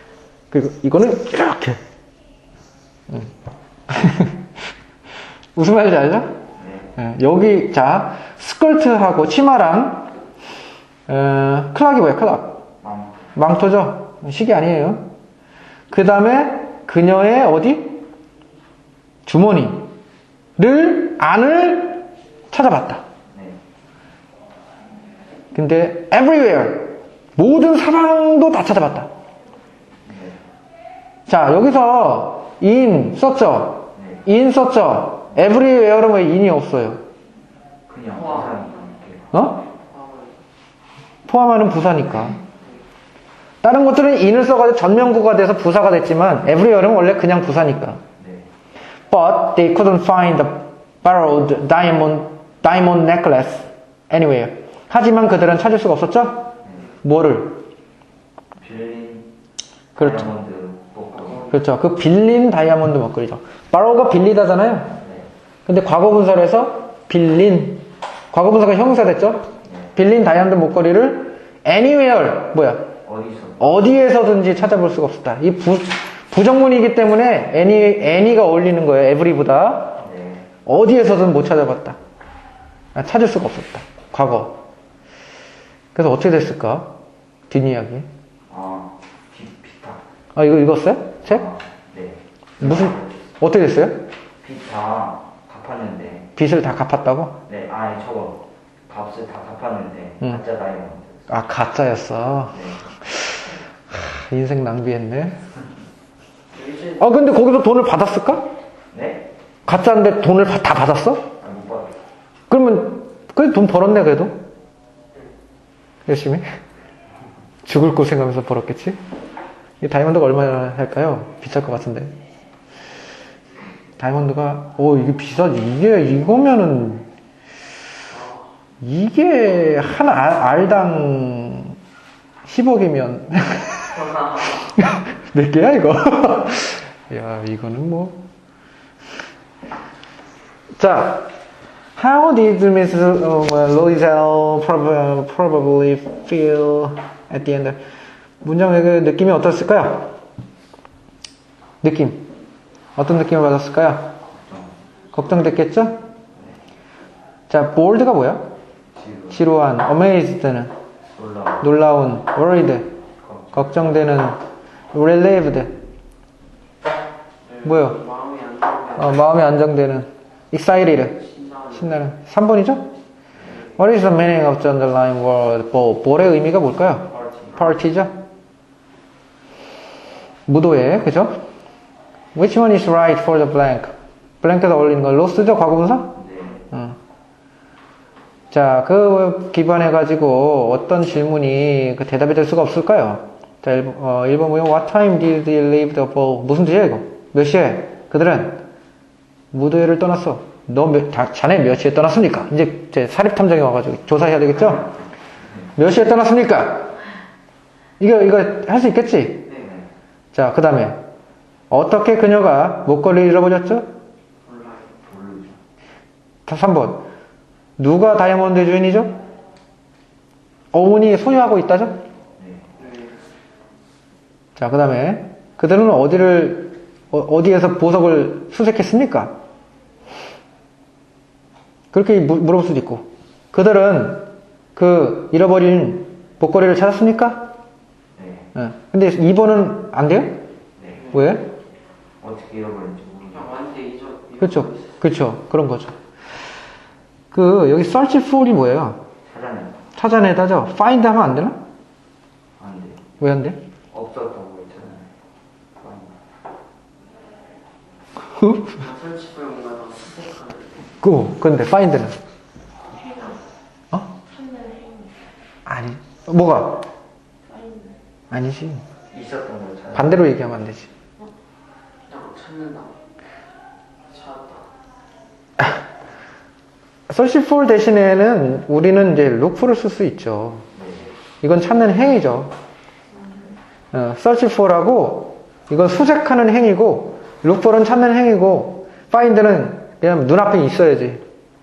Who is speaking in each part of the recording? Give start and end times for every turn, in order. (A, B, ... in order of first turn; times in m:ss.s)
0:00.5-0:01.8 A
0:03.9-0:04.4 A
0:05.5-0:06.3 A
0:06.6-0:06.9 B
0:07.0-0:10.1 A
0:11.1-0:12.6 A
0:12.8-0:13.2 B
0:13.4-0:15.1 A
0:15.9-0:18.0 A
0:19.2-0:19.9 A
0:20.6-0:23.0 A
0:25.5-0:29.1 A
0:30.0-0:30.4 B
0:31.3-0:37.0 A
0:34.0-0:34.2 B
0:37.9-0:39.3 B
0:39.3-0:39.6 A
0:39.9-0:40.3 C
0:41.2-0:42.4 A
0:43.6-0:48.0 A
0:48.2-0:48.5 B
0:49.1-0:57.6 A
0:58.6-0:59.3 B
1:00.0-1:00.3 A
1:00.0-1:01.5 B
1:01.5-1:05.0 A
1:05.0-1:05.3 B
1:05.6-1:12.9 A
1:13.0-1:13.6 B
1:13.6-1:20.0 A
1:20.0-1:20.4 B
1:20.6-1:22.0 A
1:23.0-1:24.6 A
1:26.0-1:26.9 A
1:27.5-1:28.1 A
1:28.5-1:30.0 B
1:30.4-1:31.4 A
1:31.3-1:32.2 B
1:32.6-1:34.1 A
1:32.8-1:33.1 B
1:34.4-1:36.3 B
1:36.4-1:37.4 A
1:37.5-1:41.3 B
1:41.3-1:45.4 A
1:42.5-1:42.8 B
1:46.6-1:47.0 C
1:46.9-1:48.5 A
1:48.9-1:49.3 B
1:49.6-1:51.3 A
1:51.4-1:51.9 B
1:52.5-1:54.4 A
1:56.0-1:56.4 A
1:57.6-1:59.0 A
1:59.8-2:02.2 A
2:04.0-2:07.1 A
2:08.1-2:08.4 C
2:08.8-2:11.8 A
2:12.5-2:14.0 A
2:13.9-2:14.7 C
2:14.8-2:18.2 A
2:20.8-2:21.3 A
2:22.0-2:27.8 A
2:28.4-2:30.1 A
2:31.8-2:32.3 A
2:33.0-2:34.2 A
2:34.4-2:34.8 B
2:35.1-2:36.0 A
2:37.5-2:38.5 A
2:39.0-2:39.4 B
2:39.3-2:40.7 A
2:41.1-2:41.6 B
2:41.6-2:42.9 A
2:43.2-2:43.6 B
2:43.5-2:44.4 A
2:44.9-2:45.8 A
2:47.5-2:49.1 C
2:47.6-2:48.0 A
2:49.0-2:52.9 A
2:51.4-2:51.8 C
2:53.8-2:58.2 A
3:00.5-3:01.4 A
3:02.3-3:06.2 A
3:06.2-3:06.6 B
3:06.7-3:07.0 A
3:08.5-3:18.6 A
3:19.5-3:24.9 A
3:25.8-3:26.9 A
3:28.0-3:29.5 A
3:29.6-3:29.9 B
3:30.3-3:31.0 A
3:31.7-3:33.9 A
3:34.5-3:34.9 C
3:35.0-3:35.6 B
3:36.5-3:37.0 A
3:37.8-3:39.2 A
3:40.7-3:42.0 A
3:42.4-3:42.7 B
3:42.8-3:43.2 C
3:44.6-3:49.3 A
3:51.9-3:57.5 A
3:58.2-3:58.5 B
3:58.5-4:00.5 A
4:00.8-4:01.0 B
4:01.1-4:01.5 A
4:02.2-4:03.5 B
4:03.3-4:05.0 C
4:04.4-4:06.0 A
4:07.3-4:09.0 A
4:09.3-4:09.8 B
4:10.0-4:11.6 A
4:12.6-4:13.0 B
4:13.2-4:13.6 A
4:13.9-4:15.1 B
4:15.8-4:16.2 B
4:18.3-4:18.8 A
4:18.8-4:20.8 C
4:21.0-4:22.2 A
4:25.7-4:26.9 A
4:28.3-4:28.8 A
4:29.1-4:30.2 B
4:30.0-4:30.9 A
4:32.1-4:33.0 C
4:34.1-4:34.7 C
4:37.1-4:40.7 A
4:40.8-4:41.1 B
4:41.4-4:42.5 A
4:43.9-4:51.2 A